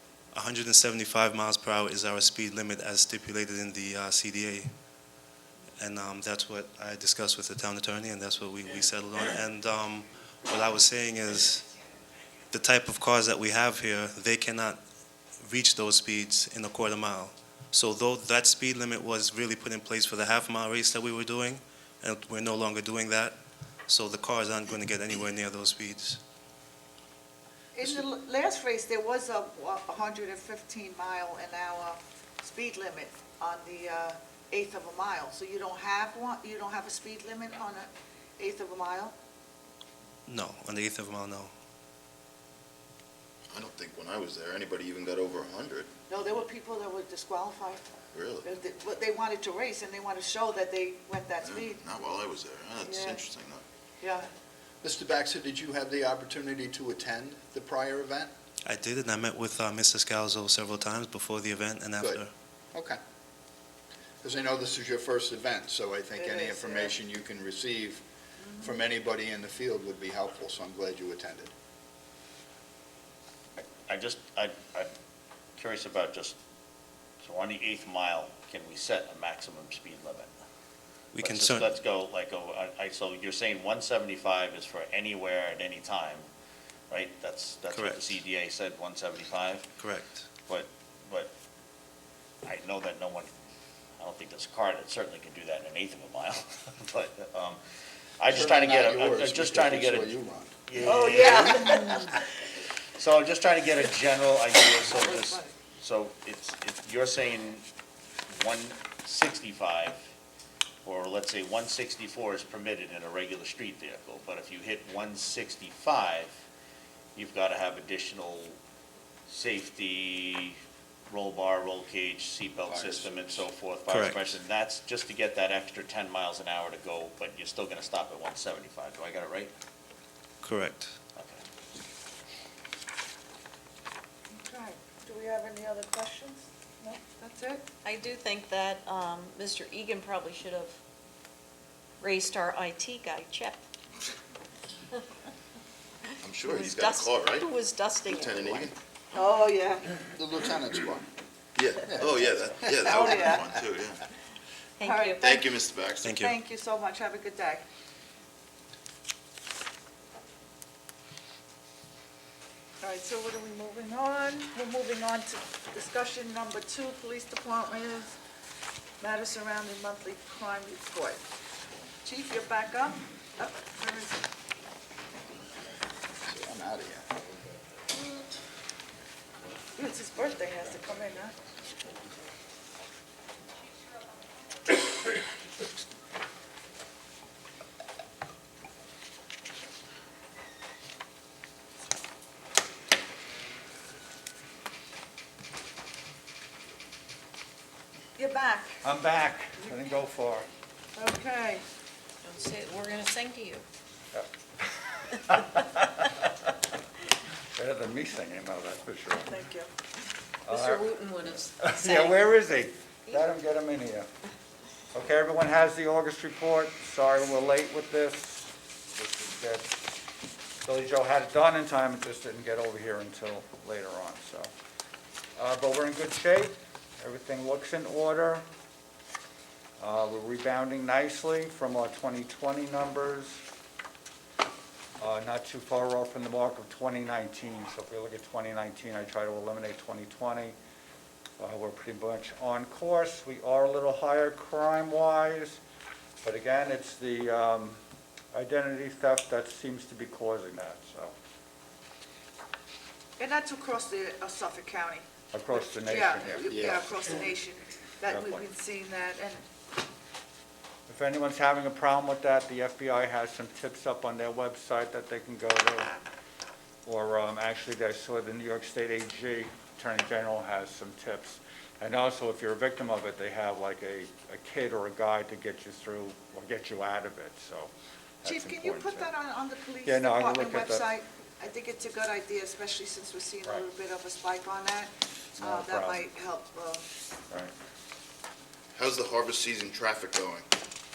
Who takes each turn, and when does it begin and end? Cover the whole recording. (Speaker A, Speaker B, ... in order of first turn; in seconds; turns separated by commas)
Speaker A: 0.3-4.7, Speaker A: 5.8-11.7, Speaker A: 12.5-14.8, Speaker A: 15.4-23.4, Speaker A: 23.9-26.2, Speaker B: 27.7-39.1, Speaker A: 40.3-41.5, Speaker C: 43.5-45.9, Speaker B: 46.1-47.9, Speaker C: 48.1-48.5, Speaker B: 48.4-51.8, Speaker C: 51.4-53.6, Speaker B: 52.8-53.2, Speaker B: 54.0-54.3, Speaker D: 54.8-58.3, Speaker A: 58.6-62.3, Speaker D: 62.0-63.0, Speaker D: 64.2-68.0, Speaker B: 66.2-67.0, Speaker B: 68.4-68.8, Speaker D: 68.6-71.5, Speaker E: 73.6-74.9, Speaker E: 75.6-76.4, Speaker E: 77.2-80.3, Speaker A: 81.2-81.7, Speaker E: 81.2-86.3, Speaker E: 86.9-89.7, Speaker A: 87.7-88.2, Speaker A: 89.8-90.3, Speaker E: 90.5-91.3, Speaker E: 92.4-93.3, Speaker E: 94.0-97.6, Speaker E: 98.2-102.1, Speaker D: 98.3-101.7, Speaker B: 100.8-102.0, Speaker E: 103.0-107.7, Speaker B: 104.9-105.5, Speaker E: 108.3-110.0, Speaker E: 110.8-116.4, Speaker E: 117.2-118.6, Speaker E: 119.3-120.6, Speaker E: 121.1-129.5, Speaker C: 122.6-123.5, Speaker A: 123.9-124.4, Speaker A: 130.4-131.0, Speaker E: 131.2-131.4, Speaker B: 134.3-137.7, Speaker F: 137.8-140.8, Speaker F: 142.0-143.6, Speaker C: 146.2-148.7, Speaker F: 146.4-148.7, Speaker B: 149.1-149.9, Speaker D: 150.2-151.1, Speaker C: 151.6-154.0, Speaker D: 151.9-153.0, Speaker B: 152.7-153.6, Speaker F: 154.8-155.4, Speaker B: 154.8-155.4, Speaker C: 155.2-156.1, Speaker A: 156.0-156.3, Speaker B: 156.0-157.6, Speaker B: 162.8-168.2, Speaker B: 169.0-171.2, Speaker B: 172.0-174.3, Speaker D: 176.3-177.1, Speaker B: 179.8-181.3, Speaker B: 198.2-198.8, Speaker G: 198.8-200.5, Speaker B: 201.0-201.6, Speaker F: 202.2-203.7, Speaker G: 205.1-206.2, Speaker G: 207.6-209.3, Speaker B: 209.3-209.7, Speaker G: 210.5-214.1, Speaker F: 210.5-212.2, Speaker G: 214.9-220.0, Speaker G: 220.7-224.5, Speaker G: 225.4-228.4, Speaker G: 229.8-233.4, Speaker G: 235.0-240.6, Speaker G: 241.4-245.6, Speaker G: 246.2-247.8, Speaker G: 248.3-251.1, Speaker B: 253.2-255.1, Speaker G: 255.3-256.9, Speaker B: 255.9-259.4, Speaker C: 256.5-257.3, Speaker G: 258.1-258.5, Speaker G: 260.9-265.9, Speaker G: 266.9-277.7, Speaker G: 278.2-279.1, Speaker B: 278.2-286.9, Speaker G: 279.8-280.9, Speaker G: 285.4-286.1, Speaker C: 288.8-290.4